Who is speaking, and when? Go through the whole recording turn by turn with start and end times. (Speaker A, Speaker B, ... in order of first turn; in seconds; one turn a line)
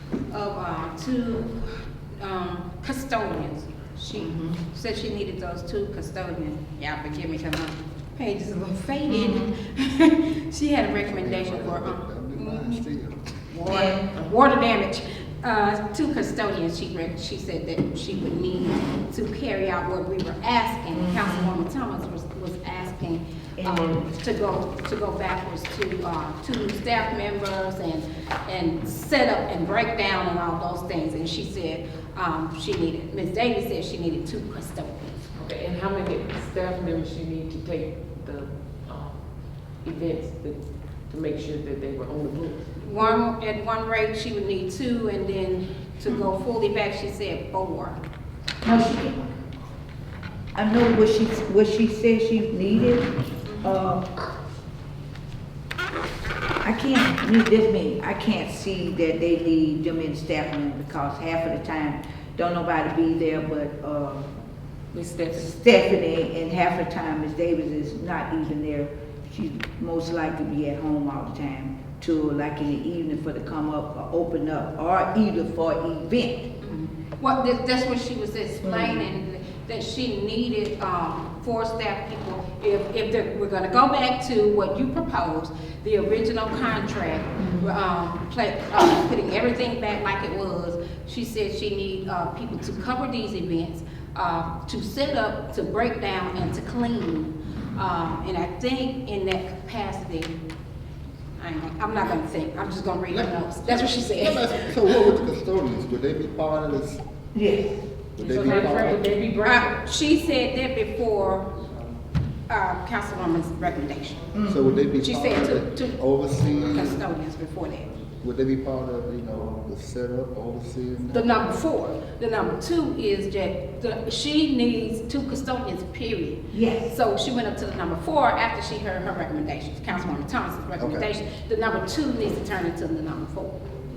Speaker A: 0.3-12.8
Speaker B: 4.1-4.6
Speaker B: 9.1-9.5
Speaker C: 11.0-13.2
Speaker A: 13.5-35.2
Speaker B: 13.6-14.1
Speaker B: 20.9-21.6
Speaker B: 23.6-24.1
Speaker D: 35.3-39.2
Speaker D: 39.7-40.6
Speaker D: 41.1-42.7
Speaker A: 42.8-48.0
Speaker B: 48.6-49.2
Speaker B: 50.5-54.1
Speaker A: 53.5-53.7
Speaker B: 56.6-64.3
Speaker D: 64.9-65.5
Speaker B: 65.3-76.5
Speaker A: 76.6-100.3
Speaker B: 78.6-79.0
Speaker B: 87.4-87.7
Speaker A: 101.4-105.1
Speaker C: 103.1-107.0
Speaker B: 107.3-107.8
Speaker C: 108.2-109.1
Speaker D: 108.2-109.8
Speaker A: 108.4-111.5
Speaker A: 112.5-114.2
Speaker B: 114.3-114.8
Speaker C: 114.5-117.0
Speaker A: 115.0-116.0
Speaker A: 116.5-117.9
Speaker C: 118.2-121.4
Speaker A: 121.1-133.6
Speaker B: 126.5-126.9
Speaker C: 130.8-131.1